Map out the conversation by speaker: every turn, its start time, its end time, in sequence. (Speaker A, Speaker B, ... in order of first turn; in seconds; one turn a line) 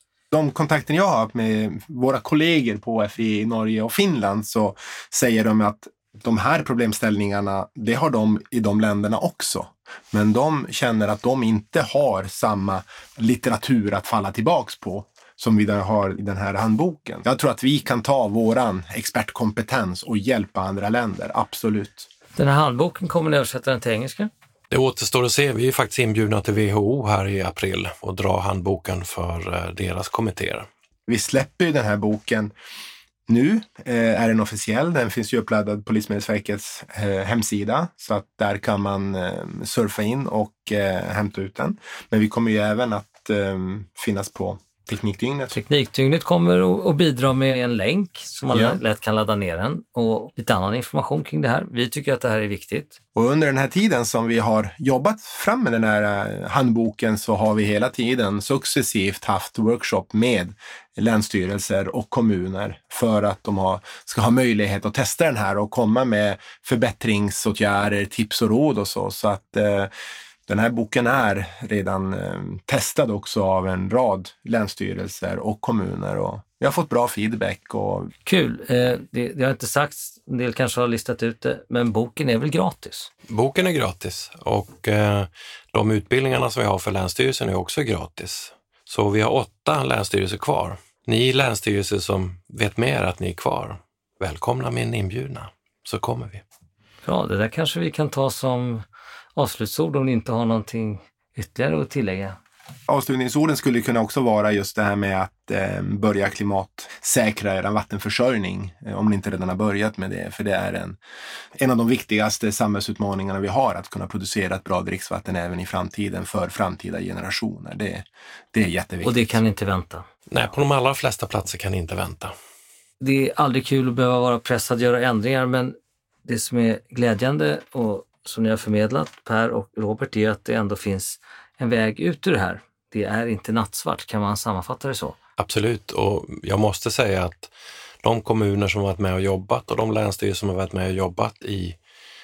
Speaker A: 0.3-22.1
Speaker B: 22.4-24.3
Speaker C: 24.7-30.7
Speaker A: 31.1-32.5
Speaker A: 33.3-45.5
Speaker B: 45.5-53.0
Speaker A: 48.5-48.8
Speaker A: 53.1-69.9
Speaker A: 70.5-78.1
Speaker B: 78.2-83.1
Speaker C: 83.3-96.4
Speaker B: 97.0-98.8
Speaker B: 99.3-102.4
Speaker A: 102.9-111.0
Speaker A: 111.6-119.4
Speaker B: 119.0-120.0
Speaker C: 120.3-122.3
Speaker B: 123.0-135.2
Speaker C: 135.4-137.5
Speaker C: 138.0-141.8